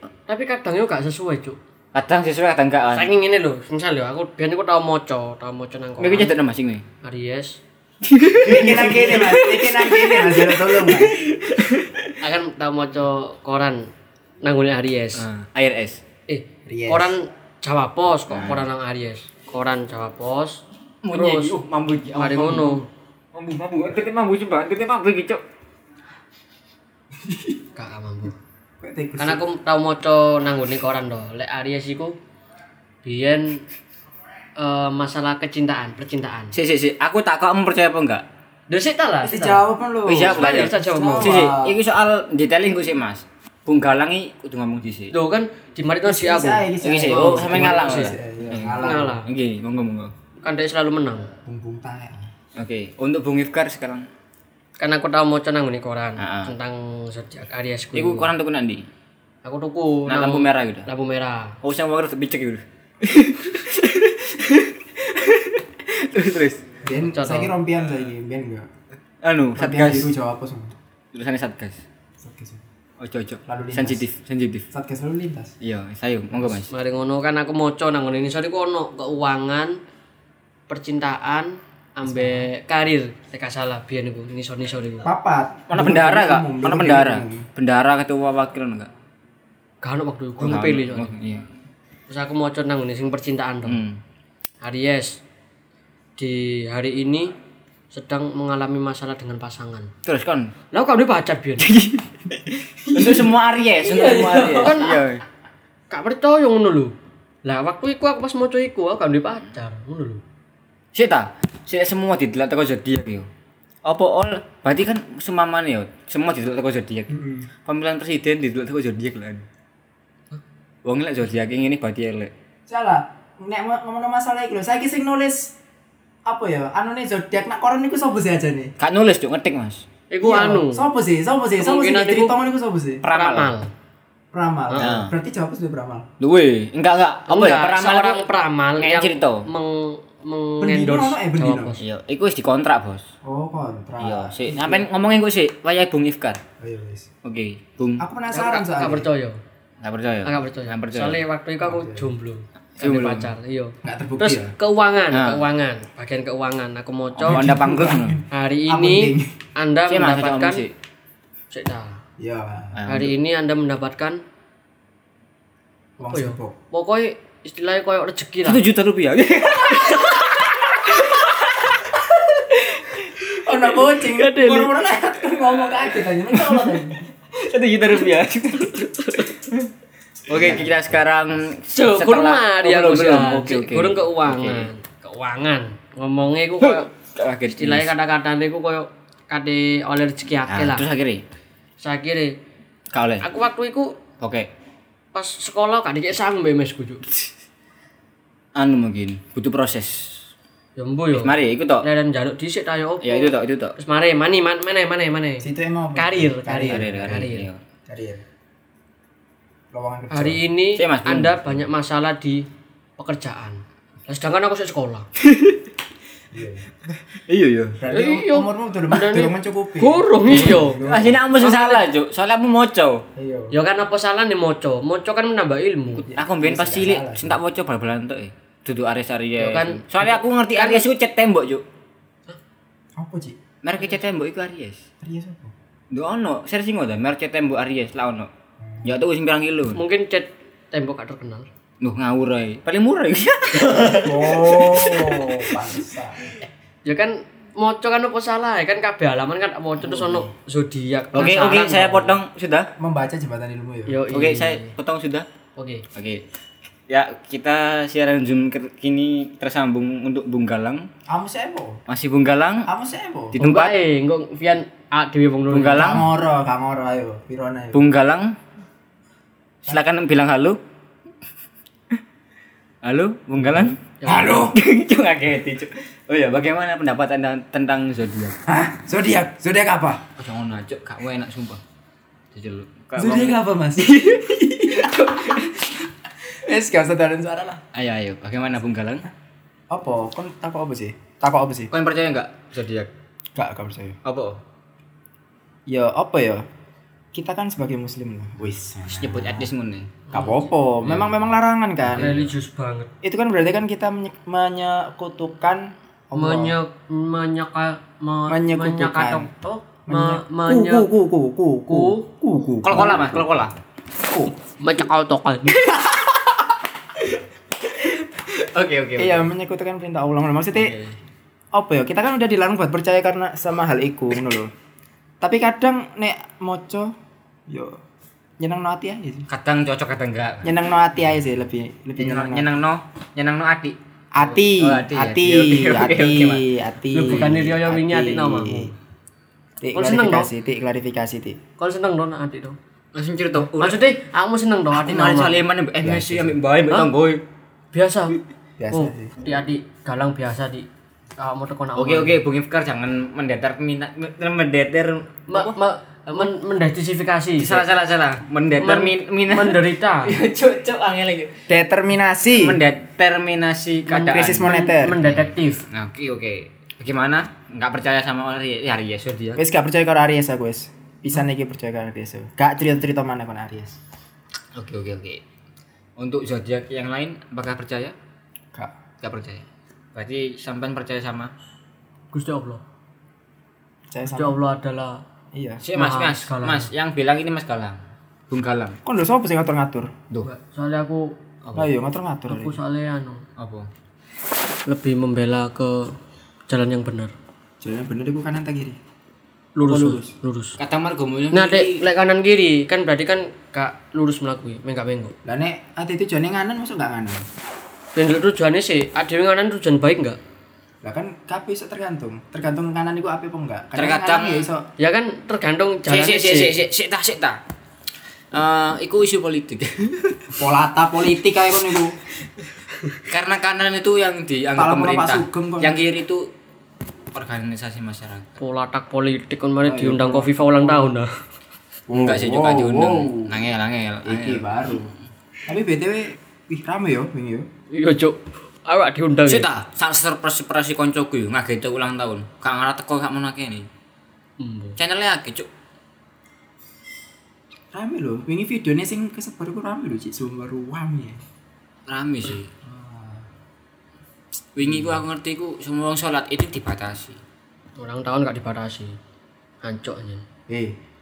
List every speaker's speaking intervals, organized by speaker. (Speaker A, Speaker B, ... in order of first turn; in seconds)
Speaker A: 0.3-1.6, 2.9-6.3, 7.0-7.6, 12.2-13.9, 14.4-15.2, 16.3-21.5, 22.1-22.9, 27.8-28.4, 29.2-32.2, 33.0-33.6, 34.6-36.5, 38.7-39.6, 40.2-41.4, 45.1-48.1, 48.8-49.2, 50.4-51.3, 54.8-58.3, 59.4-61.6, 67.1-67.5, 76.7-79.8, 80.7-85.1, 89.8-91.1, 92.1-93.8, 94.6-95.2, 96.2-97.3, 97.9-99.9, 100.7-101.7, 103.8-105.0, 105.9-106.9, 107.4-110.2, 130.1-130.8, 131.6-132.4, 133.1-133.7, 137.3-141.8, 148.3-149.4, 150.2-157.5, 158.3-160.6, 161.5-162.0, 162.9-164.2, 166.1-168.6, 174.0-174.7, 178.8-179.2, 181.7-186.9, 187.5-190.8, 191.8-192.3, 193.2-194.0, 195.1-197.0, 200.8-207.5, 210.1-212.5, 213.0-215.1, 217.9-220.8, 221.3-221.8, 223.5-226.0, 229.4-230.8, 239.7-241.5, 246.8-252.2, 253.9-254.7, 255.6-255.8, 263.4-266.0, 274.0-274.4, 300.1-300.4, 301.9-302.9, 306.1-310.9, 311.7-312.0, 314.6-315.6, 336.9-338.7, 339.7-340.3, 341.6-342.6, 343.5-345.4, 347.7-348.2, 348.7-350.7, 351.2-352.2, 355.3-357.6, 358.6-360.1, 364.4-365.6, 382.1-382.6, 384.1-385.0, 385.7-386.7, 390.2-391.1, 392.3-393.2, 394.7-395.9, 396.5-397.1, 399.6-400.6, 401.3-405.1, 407.9-410.2, 414.8-416.6, 428.4-431.1, 437.7-439.5, 444.4-444.8, 457.8-459.0, 459.6-460.2
Speaker B: 1.9-3.1, 6.0-6.8, 8.0-12.1, 15.1-16.0, 18.3-18.6, 21.0-22.8, 23.3-25.4, 36.5-38.2, 40.0-45.1, 46.8-50.1, 52.5-54.1, 56.2-56.5, 57.9-58.8, 60.1-60.9, 61.6-66.6, 69.2-70.1, 71.1-71.8, 73.0-74.7, 75.6-76.7, 85.7-88.9, 90.4-91.5, 93.7-94.0, 100.0-100.5, 101.6-105.2, 110.9-113.3, 113.8-117.1, 117.6-119.4, 120.8-122.3, 128.8-129.8, 133.0-133.5, 134.8-135.1, 136.2-138.3, 138.8-139.4, 141.8-143.1, 144.0-146.4, 147.2-148.0, 149.8-151.2, 152.8-153.3, 155.1-155.4, 157.2-158.2, 159.9-160.7, 162.7-163.1, 168.4-172.9, 176.3-179.7, 180.3-184.7, 186.6-187.9, 190.5-191.2, 192.9-193.2, 194.2-194.5, 198.6-200.2, 201.1-201.8, 203.0-203.7, 206.6-207.6, 210.7-211.6, 215.2-215.6, 217.1-217.8, 220.3-223.0, 226.0-231.6, 233.6-234.8, 235.9-238.3, 238.8-239.8, 241.8-245.5, 251.1-252.7, 254.1-255.2, 255.9-256.2, 256.9-260.9, 261.9-262.7, 263.3-263.8, 265.5-266.1, 267.7-268.3, 269.6-270.6, 272.8-278.4, 280.2-281.6, 282.3-285.7, 287.7-289.1, 291.7-292.9, 294.0-294.4, 298.9-300.0, 300.8-301.2, 301.9-302.2, 312.6-313.5, 315.7-316.1, 317.7-319.3, 320.5-320.9, 329.3-330.5, 332.0-336.4, 342.9-343.8, 344.7-347.2, 351.8-355.6, 357.4-361.4, 362.3-369.4, 374.5-375.2, 376.0-377.9, 379.0-379.4, 379.9-381.3, 385.6-388.8, 391.4-391.7, 393.4-393.7, 400.6-401.8, 413.7-414.5, 415.9-417.4, 418.3-420.3, 423.1-426.3, 427.1-428.4, 431.9-434.8, 439.3-443.7, 444.8-445.5, 451.9-452.5, 454.5-457.2
Speaker C: 8.3-11.3, 16.6-17.1, 27.2-27.6, 28.8-29.4, 39.2-41.8, 46.0-49.2, 51.4-52.3, 66.8-68.7, 69.5-70.8, 72.2-72.6, 73.5-74.0, 74.7-75.5, 82.0-82.5, 85.0-87.5, 117.1-117.5, 122.7-125.5, 126.2-128.7, 130.2-133.0, 134.3-136.1, 140.6-141.8, 143.2-144.9, 146.6-147.1, 148.0-149.1, 151.6-152.1, 153.8-154.5, 157.2-159.3, 162.2-162.8, 166.0-166.6, 173.3-177.0, 180.3-180.7, 205.4-207.2, 207.9-208.2, 209.7-210.4, 216.3-216.7, 217.8-221.2, 223.2-223.5, 226.1-227.4, 233.0-233.4, 235.0-235.5, 238.6-238.9, 243.8-246.3, 252.8-254.0, 261.1-261.8, 262.6-263.4, 265.8-267.8, 274.0-274.6, 278.5-280.0, 282.9-283.9, 284.6-285.4, 286.3-287.6, 289.7-291.7, 293.3-294.0, 295.7-296.4, 297.1-299.5, 300.1-302.2, 303.0-306.6, 308.3-309.3, 309.9-313.3, 314.0-314.3, 319.0-320.8, 321.5-324.5, 325.2-326.9, 327.5-327.8, 328.4-329.3, 330.4-332.5, 334.1-338.7, 339.6-341.4, 345.8-346.3, 348.6-349.1, 361.5-362.6, 363.9-365.0, 369.4-373.8, 383.9-384.4, 385.3-385.6, 388.8-389.9, 391.5-392.6, 397.6-398.8, 399.6-400.1, 405.2-407.2, 410.8-414.6, 420.3-421.9, 424.6-425.8, 429.6-430.9, 431.9-433.4, 434.0-434.9, 435.5-437.5, 447.7-451.2, 452.6-453.3, 454.6-455.0, 460.5-460.8